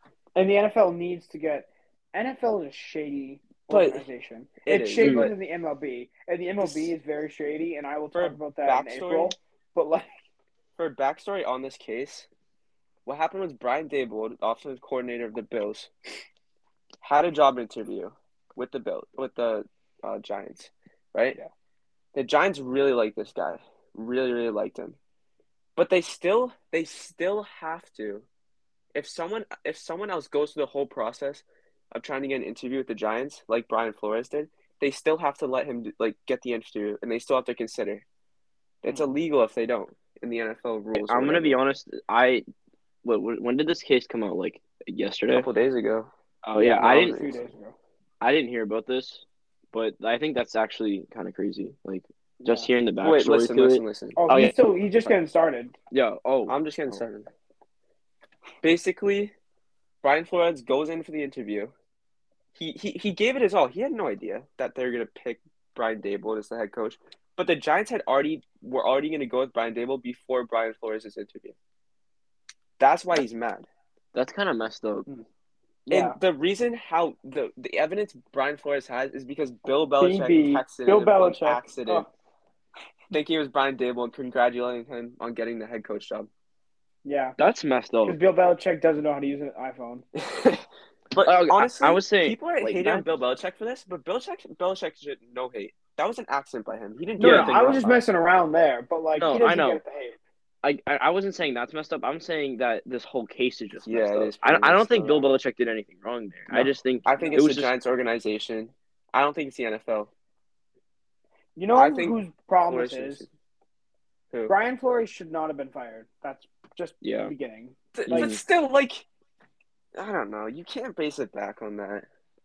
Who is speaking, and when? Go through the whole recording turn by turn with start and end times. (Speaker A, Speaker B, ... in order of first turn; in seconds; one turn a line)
Speaker A: 0.3-10.1
Speaker B: 3.7-4.0
Speaker B: 4.6-5.3
Speaker C: 5.0-5.3
Speaker B: 6.6-6.9
Speaker B: 8.1-9.3
Speaker B: 10.8-12.3
Speaker B: 13.1-15.9
Speaker B: 17.0-21.4
Speaker B: 22.1-25.0
Speaker B: 25.8-28.2
Speaker B: 28.9-38.0
Speaker B: 38.8-41.6
Speaker C: 41.0-42.4
Speaker C: 43.0-45.5
Speaker B: 45.3-46.1
Speaker C: 46.4-47.3
Speaker A: 46.5-47.8
Speaker B: 46.8-47.3
Speaker C: 48.2-54.5
Speaker A: 52.4-52.7
Speaker B: 53.0-54.2
Speaker A: 54.2-55.7
Speaker C: 55.9-56.5
Speaker B: 56.5-57.3
Speaker B: 58.6-59.3
Speaker B: 60.0-61.7
Speaker B: 62.5-71.5
Speaker B: 72.8-73.7
Speaker C: 74.1-75.0
Speaker B: 75.9-82.1
Speaker A: 75.9-76.2
Speaker A: 80.0-82.1
Speaker B: 83.1-86.3
Speaker A: 87.0-87.4
Speaker C: 87.4-88.2
Speaker A: 88.0-90.0
Speaker B: 90.3-90.6
Speaker B: 91.1-97.8
Speaker C: 91.2-93.1
Speaker A: 97.2-100.2
Speaker C: 97.2-98.0
Speaker C: 99.2-99.8
Speaker C: 100.6-107.7
Speaker B: 103.8-105.2
Speaker A: 106.5-107.5
Speaker B: 107.0-110.1
Speaker A: 111.5-113.2
Speaker B: 111.7-112.2
Speaker B: 112.7-113.3
Speaker A: 114.5-118.3
Speaker C: 117.0-117.3
Speaker B: 117.9-119.1
Speaker C: 118.1-118.4
Speaker B: 119.9-122.1